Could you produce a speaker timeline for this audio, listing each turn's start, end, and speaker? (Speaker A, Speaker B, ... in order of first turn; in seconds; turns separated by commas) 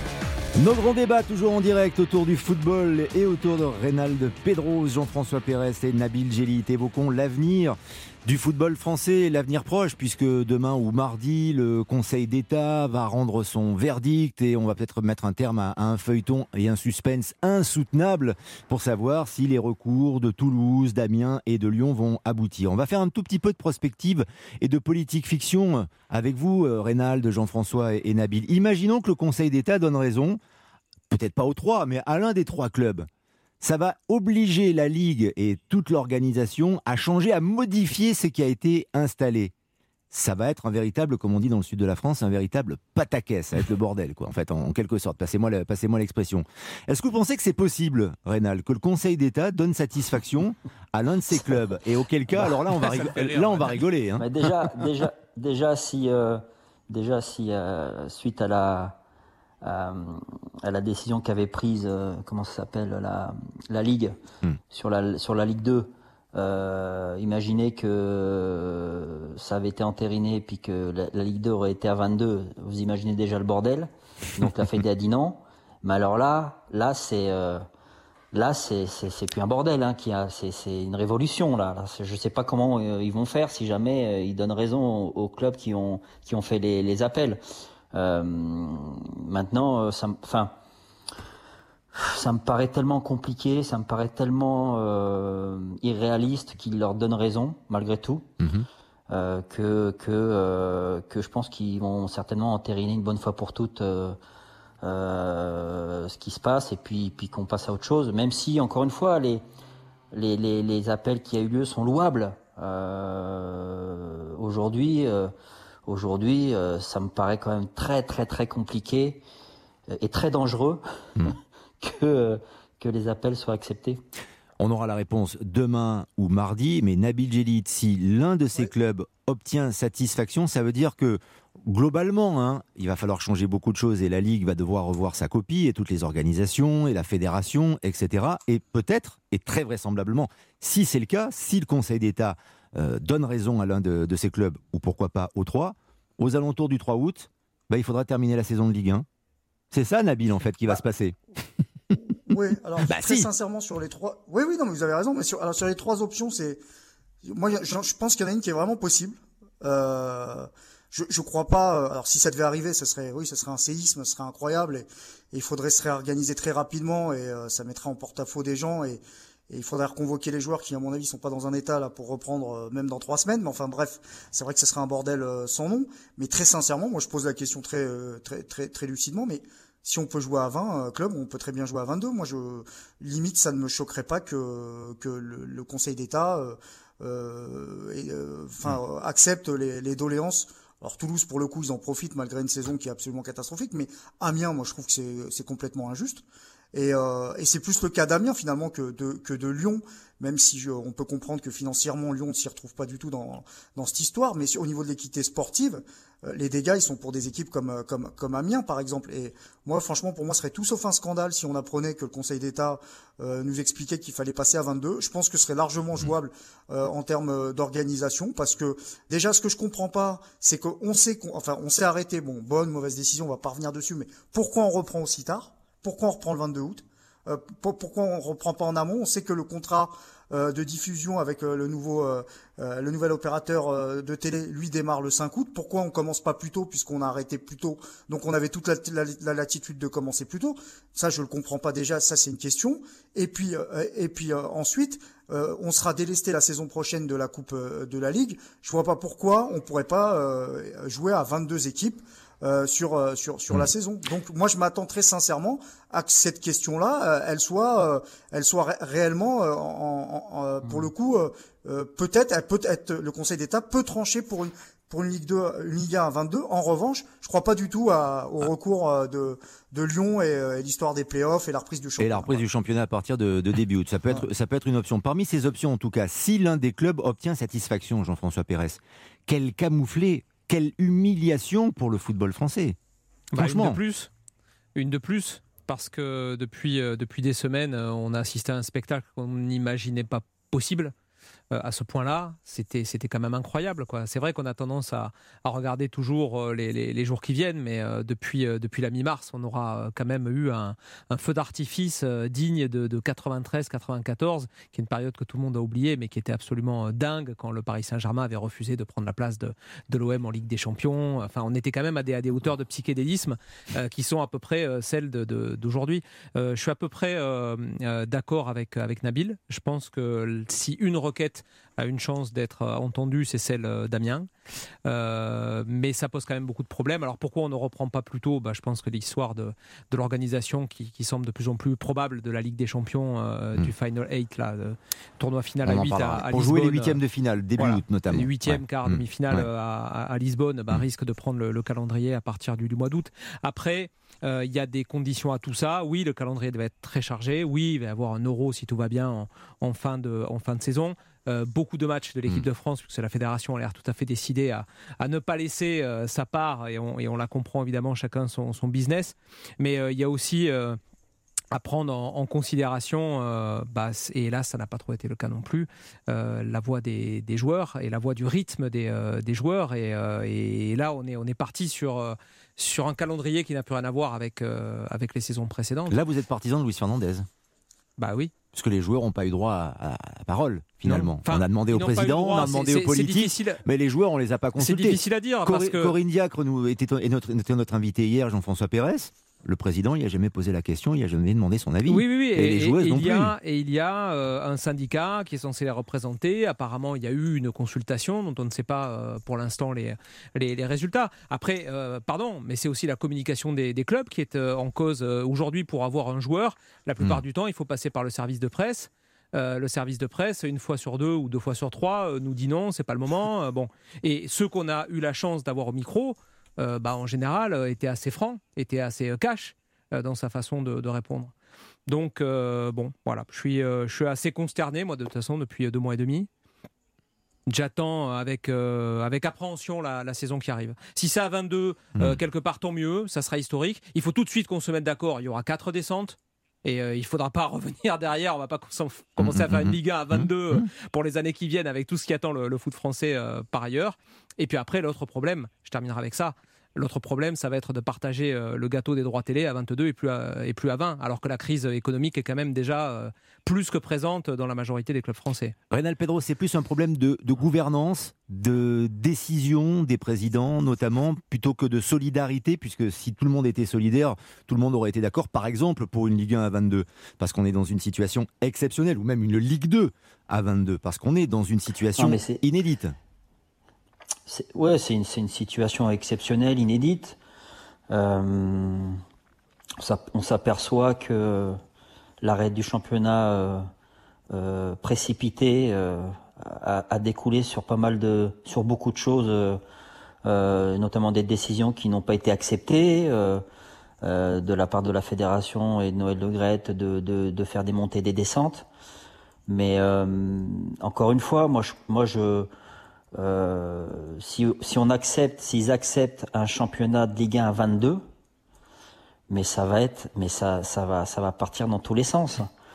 Speaker A: 0.6-30.4, Speaker A: 31.1-33.1, Speaker A: 33.6-39.5, Speaker A: 40.1-54.3, Speaker B: 52.7-53.8, Speaker C: 54.2-59.0, Speaker C: 59.6-64.2, Speaker C: 64.7-77.6, Speaker C: 78.3-87.4, Speaker C: 87.9-90.5, Speaker C: 91.9-98.3, Speaker A: 98.4-98.7, Speaker C: 99.1-104.2, Speaker C: 104.8-109.4, Speaker C: 110.1-115.3, Speaker C: 115.8-119.2, Speaker C: 120.0-124.0, Speaker A: 124.6-149.1, Speaker A: 149.7-151.2, Speaker D: 152.3-156.6, Speaker A: 152.8-153.3, Speaker D: 157.2-272.4, Speaker A: 272.0-282.8, Speaker B: 283.3-284.1, Speaker A: 283.4-283.8, Speaker B: 284.7-290.9, Speaker B: 291.5-324.3, Speaker B: 324.9-337.0, Speaker A: 335.6-339.5, Speaker B: 337.6-360.8, Speaker B: 361.5-376.0, Speaker A: 375.9-377.2, Speaker B: 378.0-378.3, Speaker A: 378.5-393.3, Speaker B: 380.8-383.6, Speaker B: 384.6-385.9, Speaker B: 391.9-421.3, Speaker B: 421.9-426.3, Speaker B: 427.5-455.5, Speaker A: 439.2-440.6, Speaker A: 455.7-472.9, Speaker C: 472.0-472.4, Speaker C: 474.3-477.2, Speaker C: 477.9-479.0, Speaker C: 479.8-481.6, Speaker C: 482.2-483.6, Speaker C: 484.3-489.6, Speaker C: 490.2-493.4, Speaker C: 494.0-498.7, Speaker C: 499.5-502.5, Speaker C: 503.1-508.0, Speaker C: 509.3-512.5